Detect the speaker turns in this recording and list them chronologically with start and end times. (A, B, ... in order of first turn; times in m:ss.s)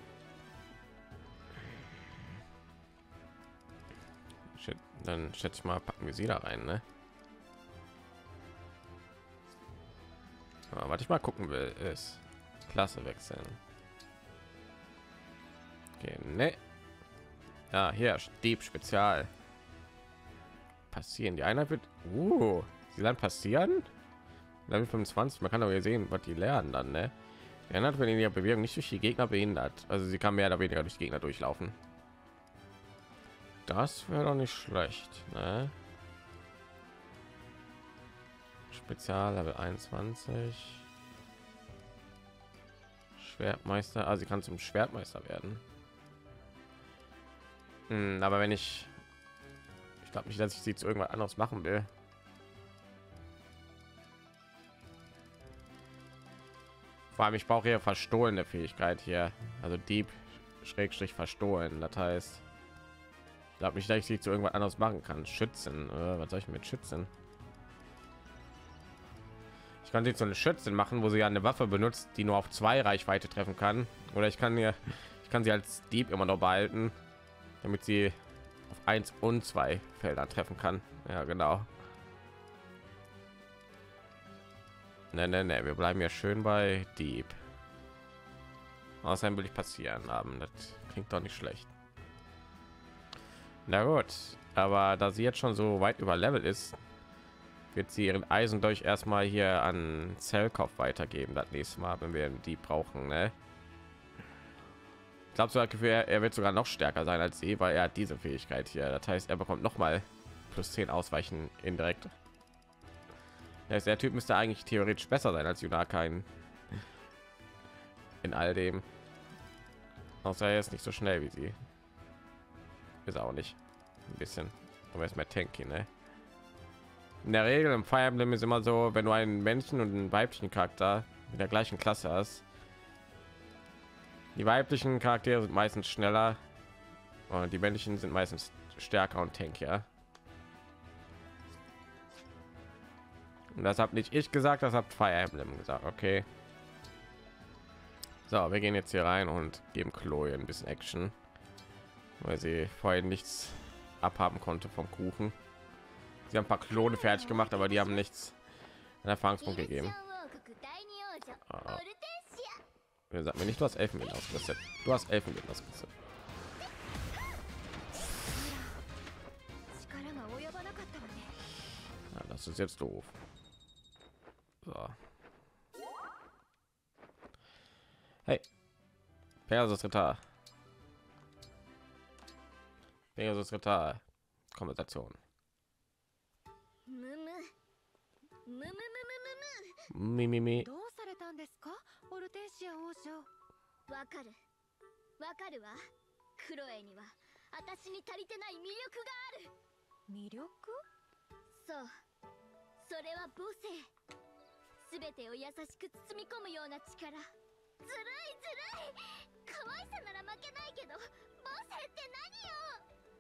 0:04.6-0:06.8 A
0:10.7-0:13.6 A
0:16.0-0:16.6 A
0:17.7-0:19.3 A
0:20.9-0:23.9 A
0:24.7-0:27.1 A
0:27.7-0:31.8 A
0:33.7-0:35.7 A
0:38.7-0:40.9 A
0:43.2-0:45.6 A
0:47.9-0:48.9 A
0:50.0-0:51.9 A
0:57.2-1:02.4 A
1:03.6-1:07.1 A
1:09.8-1:17.0 A
1:17.6-1:18.2 A
1:18.7-1:21.7 A
1:25.1-1:27.4 A
1:29.0-1:31.7 A
1:33.7-1:36.8 A
1:37.7-1:43.4 A
1:45.3-1:52.1 A
1:53.7-1:56.3 A
1:58.2-1:58.9 A
2:00.2-2:01.6 A
2:03.0-2:05.9 A
2:07.2-2:12.4 A
2:14.4-2:16.4 A
2:17.3-2:19.9 A
2:23.5-2:26.3 A
2:28.3-2:31.2 A
2:32.2-2:35.4 A
2:36.3-2:38.4 A
2:36.7-2:38.0 B
2:39.0-2:39.9 A
2:39.4-2:42.6 B
2:41.5-2:41.8 A
2:43.1-2:45.9 A
2:48.3-2:48.8 C
2:49.7-2:51.4 C
2:52.1-2:53.1 A
2:54.6-2:55.0 A
2:59.5-3:00.2 A
3:03.2-3:04.0 A
3:04.5-3:05.2 A
3:06.9-3:07.5 B
3:08.5-3:09.9 B
3:09.9-3:10.7 A
3:10.6-3:13.3 C
3:13.9-3:14.4 B
3:15.2-3:15.8 B
3:16.4-3:19.5 B
3:20.1-3:20.8 C
3:21.5-3:21.9 B
3:22.8-3:23.9 B
3:24.8-3:27.2 B
3:27.8-3:32.8 B